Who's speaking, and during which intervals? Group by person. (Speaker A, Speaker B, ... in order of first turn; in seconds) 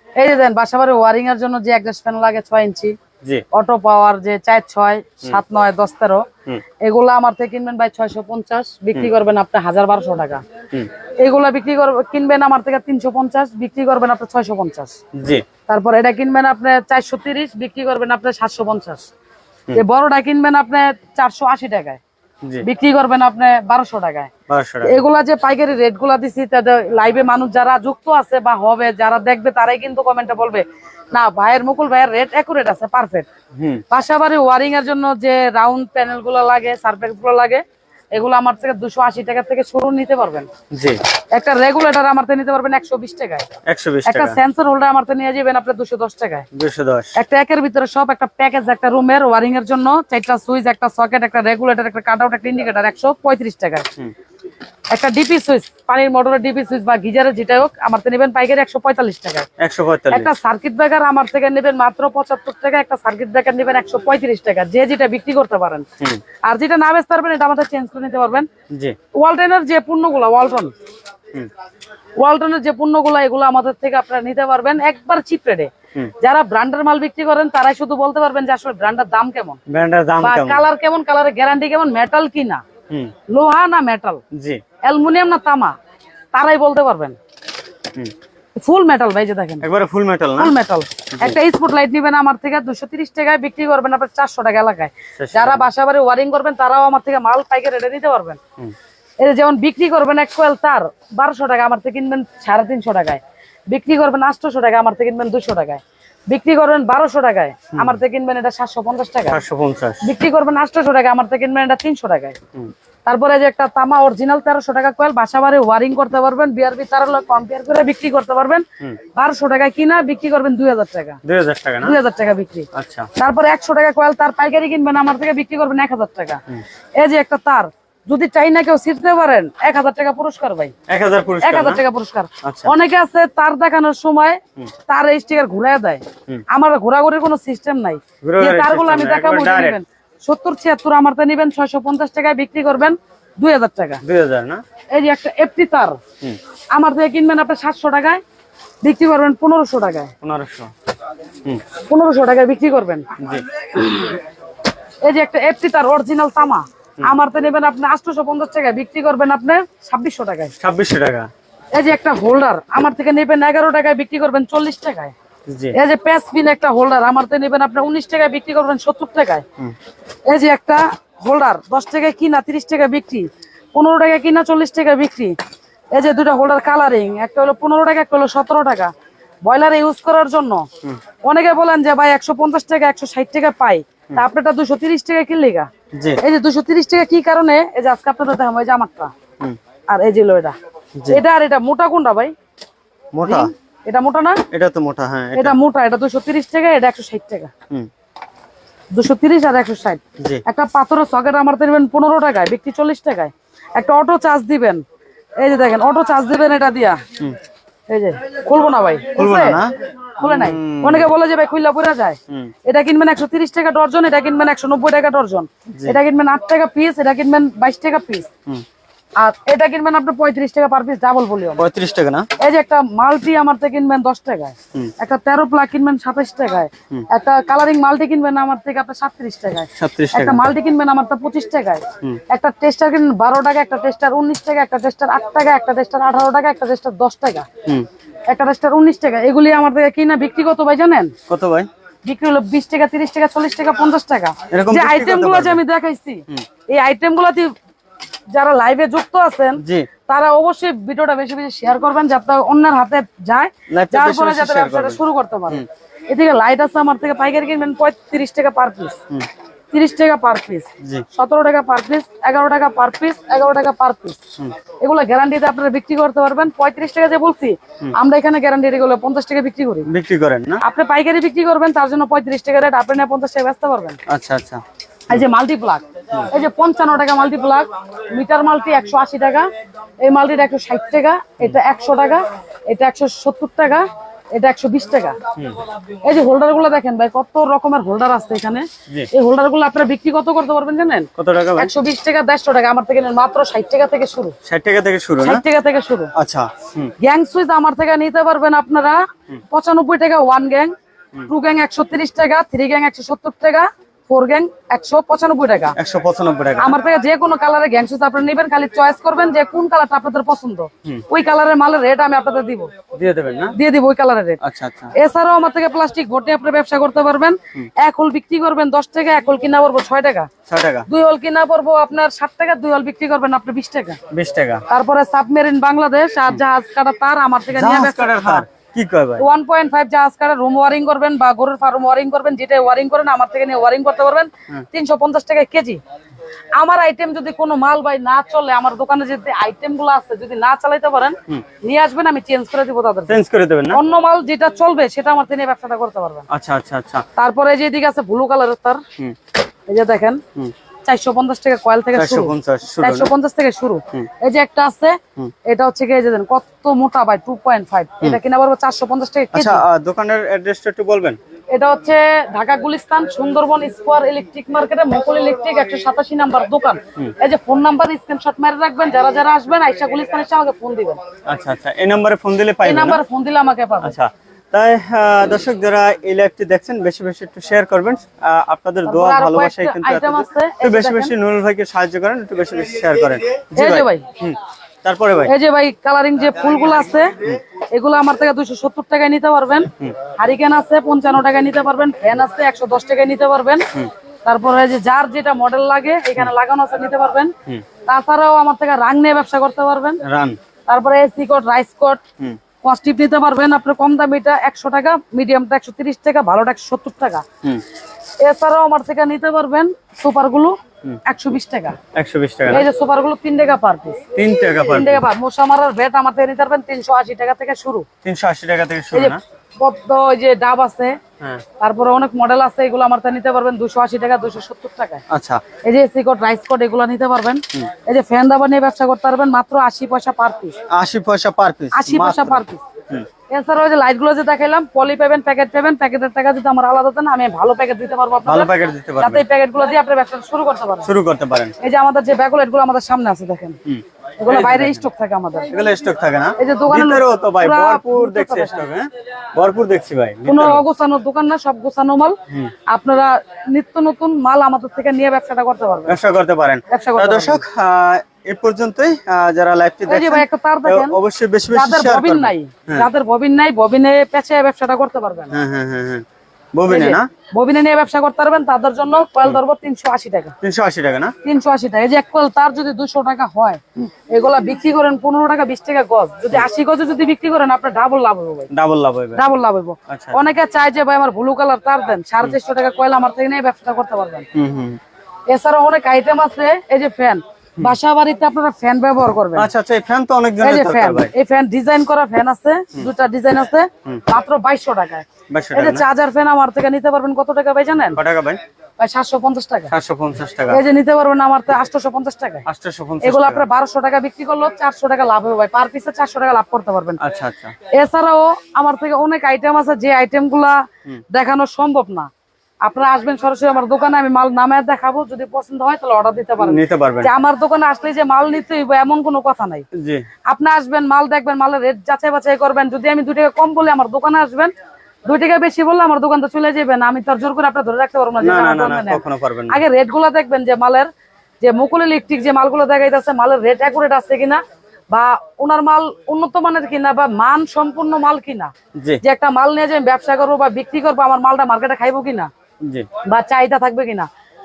Speaker A: 0.2-3.0, 3.5-6.2, 6.8-10.4, 11.2-15.0, 15.7-19.1, 19.7-22.0, 22.6-24.3, 24.8-33.3, 33.9-40.5, 41.3-43.5, 44.1-46.5, 47.1-53.9, 54.9-59.5, 60.1-65.9, 66.4-68.5, 69.2-70.7, 72.2-79.6, 80.2-82.6, 83.3-84.2, 84.8-85.7, 86.3-87.2, 88.6-89.7, 90.4-98.4, 99.2-109.4, 110.0-112.4, 113.0-121.2, 121.8-126.4, 127.0-130.7, 131.4-144.0, 144.9-146.0, 146.7-148.2, 148.8-150.1, 151.9-153.1, 153.7-154.2, 155.0-160.5, 161.7-165.1, 165.7-169.4, 170.3-175.3, 175.9-178.9, 179.4-180.7, 181.2-185.7, 186.2-189.1, 189.9-190.6, 191.1-192.3, 193.3-194.4, 195.3-197.5, 198.9-204.8, 205.4-207.0, 207.9-209.6, 210.2-218.3, 219.2-221.7, 222.4-237.5, 238.3-241.1, 242.0-247.5, 248.3-259.0, 259.7-264.2, 264.8-269.9, 270.6-274.0, 275.1-279.5, 280.0-285.2, 286.0-294.4, 295.2-296.1, 297.0-300.7, 301.3-305.8, 306.6-312.7, 313.6-314.4, 314.9-320.3, 320.9-324.0, 324.7-328.5, 329.2-335.8, 336.6-343.2, 343.7-346.3, 347.2-348.8, 349.7-350.2, 350.9-359.6, 361.5-371.0, 372.6-374.0, 378.9-381.1, 383.6-384.1, 385.2-393.7, 394.2-397.3, 397.9-400.0, 400.7-402.0, 402.6-407.2, 408.2-411.8, 412.5-414.1, 414.6-417.9, 418.9-421.0, 421.6-425.0, 425.6-430.6, 431.7-432.6, 433.3-440.9, 441.6-443.6, 444.2-445.5, 446.4-448.6, 450.3-456.0, 456.7-457.4, 459.9-461.0, 461.5-465.4, 466.7-470.4, 471.2-478.5, 479.2-484.3, 485.3-489.5, 490.4-498.0, 498.8-499.7, 500.5-502.5, 503.0-507.0, 507.7-512.1, 512.6-519.6, 520.3-524.5, 525.0-530.9, 531.4-538.5, 539.0-542.3, 543.0-544.1
Speaker B: 15.2-15.4, 24.5-25.0, 33.5-33.8, 40.7-41.0, 43.7-44.4, 46.5-47.2, 59.6-60.3, 79.7-80.7, 84.3-84.6, 89.6-90.5, 95.2-95.7, 109.3-110.0, 121.2-122.0, 122.7-123.1, 130.9-131.8, 132.4-132.7, 138.2-139.8, 144.0-144.6, 150.2-150.7, 153.2-153.5, 160.6-161.3, 165.5-165.8, 185.9-186.2, 191.0-191.2, 193.1-193.5, 194.5-195.6, 200.2-200.4, 209.2-211.1, 221.6-222.3, 229.8-230.5, 241.3-241.7, 244.5-245.6, 249.6-249.9, 253.7-255.7, 260.8-261.1, 269.9-270.6, 274.1-275.2, 291.2-291.7, 294.4-295.4, 296.1-296.9, 305.8-306.8, 312.9-313.6, 314.4-314.9, 320.5-320.9, 324.1-324.7, 327.5-329.2, 343.1-343.8, 346.3-347.1, 351.9-353.1, 359.3-361.2, 371.3-373.0, 373.8-385.3, 400.0-400.4, 411.9-412.7, 414.1-415.1, 418.0-419.2, 425.1-425.4, 430.7-433.1, 438.2-439.2, 440.8-441.5, 443.7-444.8, 445.5-450.6, 455.9-462.9, 465.3-467.1, 470.4-471.1, 478.5-479.2, 479.9-480.2, 484.3-484.8, 489.4-491.1, 495.3-495.9, 497.9-498.4, 499.7-500.6, 502.5-503.5, 507.0-507.6, 516.4-517.1, 519.8-520.0, 528.2-529.6, 538.8-539.0, 542.6-542.9